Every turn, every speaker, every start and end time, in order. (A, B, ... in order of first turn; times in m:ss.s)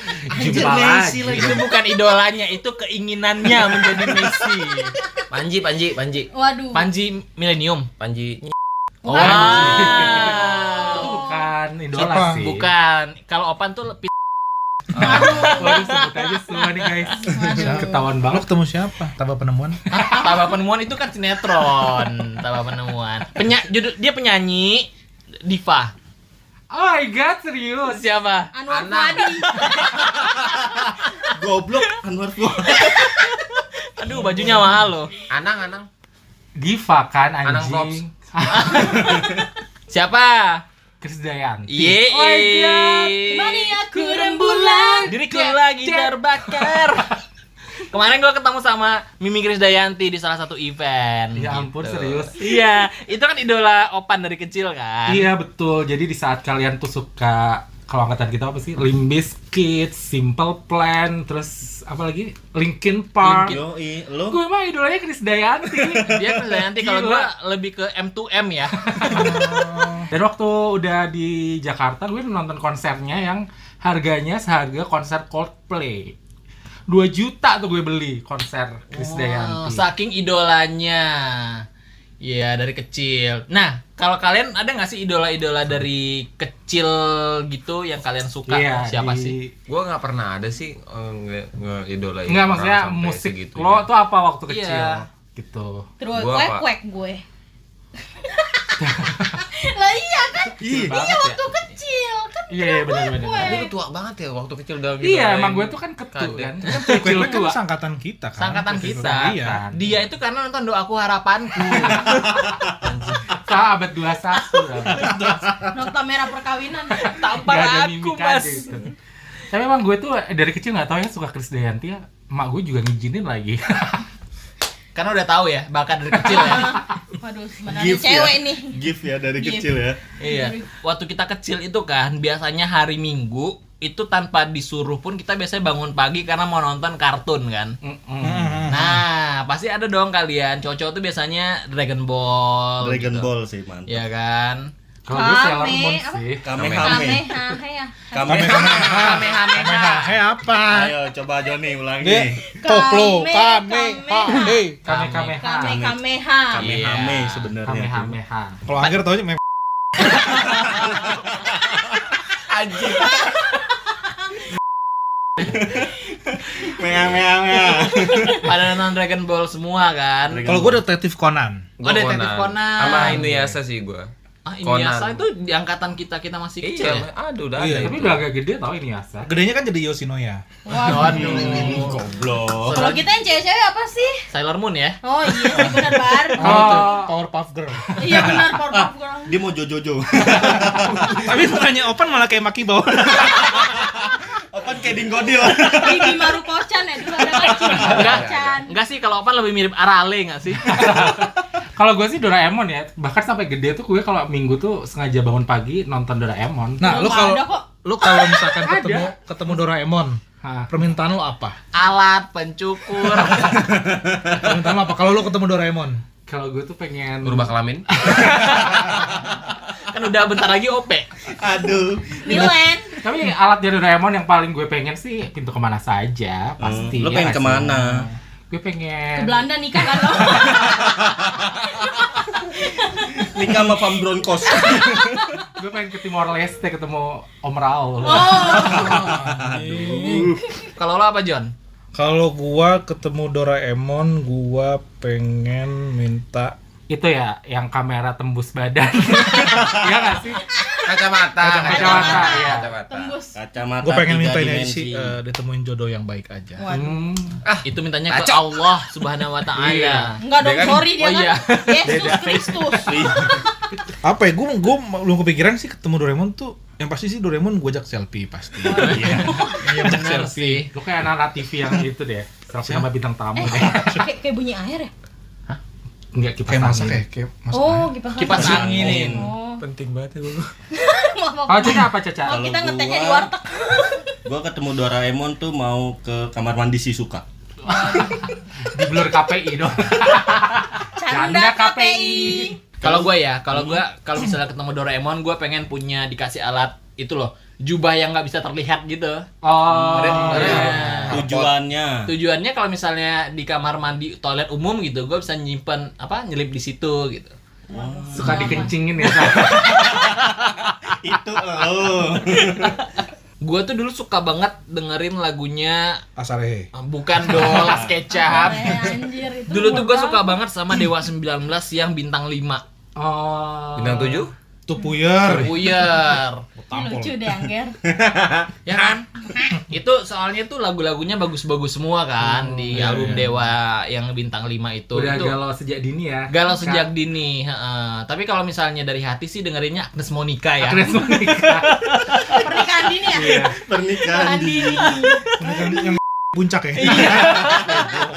0:00.3-0:01.6 A
0:00.4-0:01.5 B
0:00.4-0:04.9 C
0:03.4-0:04.3 B
0:05.3-0:06.3 D
0:06.3-0:06.9 E
0:06.7-0:07.9 C
0:08.0-0:08.5 D
0:09.0-0:11.2 C
0:09.1-0:11.4 E
0:09.1-0:12.7 A
0:11.9-0:12.4 F
0:12.2-0:14.1 C
0:14.9-0:16.6 C
0:15.0-0:15.8 E
0:15.0-0:15.4 D
0:15.0-0:18.5 A
0:17.2-0:18.1 E
0:17.5-0:19.8 F
0:19.9-0:24.9 C
0:25.4-0:25.9 C
0:26.7-0:28.0 A
0:27.9-0:28.5 C
0:28.5-0:29.6 E
0:28.7-0:29.4 D
0:29.4-0:31.3 C
0:30.2-0:33.2 B
0:32.8-0:35.1 C
0:34.1-0:34.6 F
0:35.3-0:35.9 D
0:36.6-0:39.1 A
0:37.4-0:38.0 D
0:38.5-0:39.4 C
0:39.0-0:39.4 B
0:39.9-0:40.6 C
0:41.0-0:43.2 A
0:41.7-0:43.7 C
0:43.3-0:45.4 E
0:43.9-0:46.1 A
0:45.1-0:47.1 C
0:47.9-0:51.6 C
0:51.3-0:52.6 A
0:51.7-0:52.3 D
0:52.3-0:55.2 C
0:55.1-1:03.6 A
1:03.2-1:03.6 C
1:03.4-1:04.4 B
1:04.3-1:07.3 A
1:05.7-1:06.4 B
1:06.0-1:08.9 C
1:08.8-1:16.1 A
1:09.1-1:10.1 F
1:16.9-1:19.8 A
1:18.9-1:21.6 C
1:22.2-1:29.3 C
1:28.5-1:29.5 A
1:29.7-1:33.9 D
1:32.3-1:35.9 A
1:34.5-1:35.0 C
1:36.0-1:37.2 E
1:36.1-1:36.6 D
1:38.2-1:43.7 E
1:38.8-1:39.4 A
1:40.5-1:41.4 A
1:40.6-1:41.0 B
1:42.5-1:43.6 A
1:43.4-1:46.6 D
1:45.0-1:47.6 A
1:46.6-1:49.6 F
1:48.4-1:52.2 C
1:48.7-1:49.9 A
1:51.6-1:52.3 F
1:52.1-1:52.8 B
1:53.4-1:55.3 A
1:54.8-1:55.6 F
1:55.7-1:57.1 E
1:57.0-1:58.8 C
1:57.0-1:58.9 A
1:59.5-2:04.0 A
2:04.9-2:06.8 C
2:06.2-2:08.8 E
2:07.6-2:10.0 B
2:09.4-2:10.7 E
2:10.2-2:17.8 C
2:17.8-2:18.6 A
2:18.2-2:19.0 F
2:18.7-2:23.3 C
2:22.8-2:24.0 B
2:23.9-2:24.7 C
2:25.0-2:26.8 A
2:25.1-2:29.0 E
2:26.4-2:27.3 B
2:26.6-2:26.8 D
2:28.1-2:29.2 B
2:28.2-2:30.9 F
2:28.9-2:30.2 C
2:30.7-2:32.4 B
2:32.0-2:34.8 F
2:32.5-2:34.6 E
2:34.8-2:35.8 A
2:34.9-2:35.3 C
2:35.2-2:36.7 E
2:35.7-2:36.0 B
2:36.5-2:38.2 B
2:36.6-2:37.5 C
2:37.6-2:38.6 A
2:38.6-2:39.4 F
2:42.5-2:43.3 D
2:45.4-2:48.8 B
2:48.4-2:50.4 C
2:50.3-2:50.8 B
2:50.4-2:51.7 F
2:51.8-2:54.1 D
2:51.8-2:53.2 C
2:53.1-2:53.6 F
2:54.4-2:57.1 C
2:54.6-2:55.2 D
2:56.6-2:58.2 D
2:57.6-2:58.1 F
2:57.8-2:59.3 A
2:59.2-3:00.4 F
3:00.6-3:01.8 E
3:00.8-3:02.0 C
3:01.0-3:03.0 B
3:01.1-3:01.9 F
3:02.7-3:03.0 C
3:02.7-3:04.2 E
3:04.3-3:05.0 C
3:05.0-3:07.0 E
3:06.3-3:07.9 F
3:06.4-3:07.1 A
3:08.0-3:09.4 E
3:08.0-3:11.6 B
3:10.3-3:13.8 F
3:13.1-3:16.3 B
3:15.7-3:18.7 E
3:17.5-3:18.6 D
3:17.7-3:21.0 C
3:20.6-3:27.0 A
3:26.8-3:31.6 F
3:26.8-3:27.7 E
3:28.6-3:29.1 A
3:30.4-3:30.7 A
3:31.7-3:33.6 C
3:33.2-3:34.5 B
3:34.4-3:36.0 F
3:36.3-3:37.5 A
3:37.2-3:38.5 D
3:38.0-3:41.1 C
3:41.3-3:42.6 B
3:42.2-3:43.0 E
3:43.0-3:50.4 A
3:46.6-3:48.0 B
3:49.2-3:51.0 E
3:50.2-3:51.5 B
3:51.6-3:53.6 E
3:53.1-3:55.3 B
3:54.6-3:55.0 E
3:55.6-3:58.8 A
3:58.0-3:59.1 E
3:58.3-4:00.4 B
3:58.6-4:00.3 F
4:00.8-4:01.5 C
4:01.9-4:06.5 F
4:06.9-4:10.4 A
4:10.6-4:11.0 E
4:10.8-4:13.2 D
4:11.4-4:12.2 F
4:11.6-4:13.4 E
4:11.7-4:12.7 A
4:13.3-4:15.1 B
4:13.8-4:16.7 F
4:16.6-4:17.0 E
4:16.7-4:17.4 A
4:17.4-4:18.6 D
4:17.6-4:20.2 C
4:19.7-4:20.1 A
4:20.2-4:23.5 E
4:20.2-4:20.9 D
4:20.9-4:22.5 C
4:22.8-4:23.4 B
4:24.0-4:30.6 F
4:28.6-4:29.8 E
4:28.8-4:29.4 B
4:29.6-4:30.7 C
4:30.7-4:34.0 A
4:33.4-4:34.9 E
4:33.5-4:34.0 F
4:36.1-4:37.0 A
4:36.5-4:37.9 F
4:37.5-4:39.6 E
4:38.2-4:39.2 C
4:38.2-4:39.3 B
4:38.5-4:39.1 D
4:39.6-4:40.5 D
4:40.7-4:44.1 E
4:41.5-4:42.4 A
4:42.3-4:43.3 B
4:44.2-4:47.2 B
4:47.6-4:48.3 E
4:47.7-4:48.1 A
4:48.7-4:52.6 A
4:51.0-4:52.6 E
4:52.8-4:53.8 B
4:52.8-5:01.2 C
4:59.4-5:01.1 A
4:59.8-5:00.6 B
4:59.9-5:01.6 D
5:01.1-5:02.1 B
5:02.1-5:07.3 C
5:07.7-5:12.8 B
5:07.7-5:09.2 E
5:08.1-5:09.6 A
5:12.6-5:16.0 C
5:16.2-5:16.7 F
5:16.7-5:18.8 C
5:17.3-5:17.9 B
5:18.1-5:20.4 E
5:19.5-5:22.6 C
5:23.0-5:24.3 A
5:23.8-5:24.3 D
5:24.7-5:25.8 F
5:25.2-5:26.4 C
5:26.5-5:27.3 F
5:26.7-5:27.8 E
5:27.8-5:28.5 B
5:28.6-5:29.1 C
5:29.6-5:35.4 C
5:32.4-5:33.2 A
5:32.7-5:33.2 F
5:34.9-5:36.9 A
5:36.3-5:41.1 C
5:40.6-5:41.9 A
5:42.4-5:43.5 E
5:43.0-5:45.2 B
5:43.2-5:43.6 A
5:44.0-5:45.3 E
5:45.4-5:48.0 F
5:46.8-5:48.0 C
5:47.0-5:48.0 B